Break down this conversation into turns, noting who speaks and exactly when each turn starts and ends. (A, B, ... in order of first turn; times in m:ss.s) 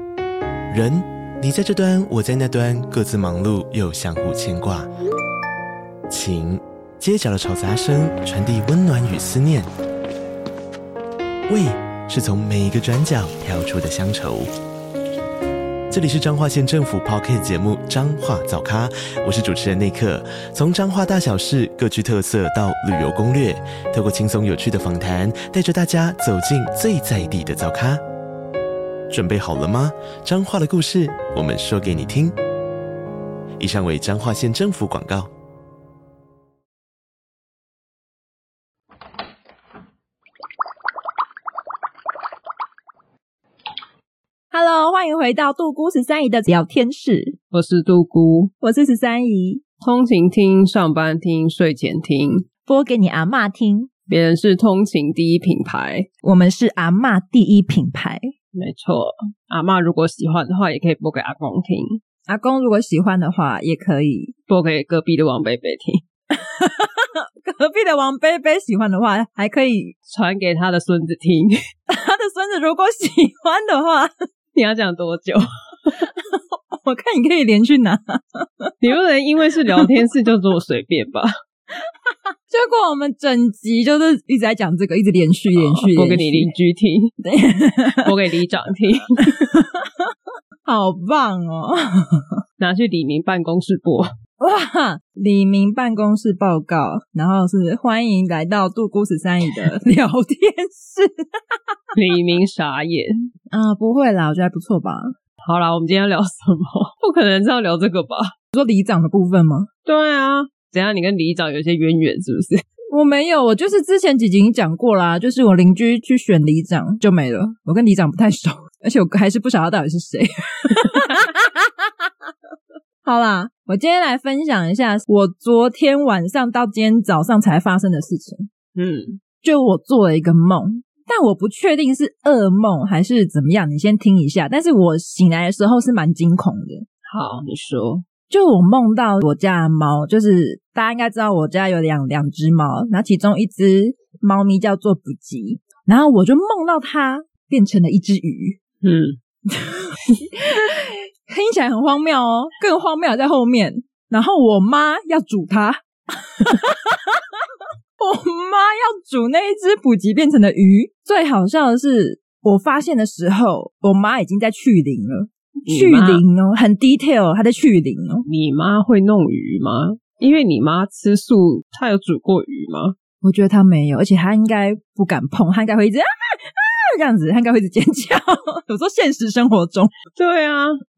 0:00.7-0:04.9 A
0:06.1-0:09.7 A
0:11.5-0:14.5 A
0:15.9-0:28.0 A
0:29.1-0:32.4 A
0:33.6-0:35.3 A
0:44.5-0:47.4 B
0:47.5-0:48.5 C
0:48.6-0:49.6 B
0:49.8-0:52.4 C
0:52.6-0:53.9 B
0:54.1-0:56.1 C
0:56.2-0:58.3 B
0:58.5-1:02.0 C
1:02.3-1:04.3 B
1:04.5-1:06.0 C
1:06.3-1:09.9 B
1:10.1-1:11.6 C
1:11.9-1:14.1 B
1:14.5-1:15.9 C
1:15.9-1:18.7 B
1:18.8-1:21.3 C
1:21.8-1:26.5 B
1:25.5-1:27.1 C
1:27.2-1:28.1 B
1:28.0-1:29.4 C
1:29.4-1:30.1 B
1:30.6-1:32.4 B
1:32.6-1:34.1 C
1:34.4-1:42.0 B
1:41.9-1:43.3 C
1:43.5-1:45.1 B
1:45.4-1:48.3 C
1:48.5-1:49.7 B
1:49.8-1:52.6 C
1:52.9-2:02.1 B
2:03.0-2:08.5 B
2:08.8-2:09.2 C
2:09.4-2:16.8 B
2:17.1-2:18.0 C
2:18.3-2:28.6 B
2:28.8-2:29.2 C
2:29.5-2:37.5 B
2:38.0-2:48.2 B
2:45.6-2:46.2 C
2:48.2-2:53.0 C
2:53.2-2:59.9 B
3:00.2-3:00.8 C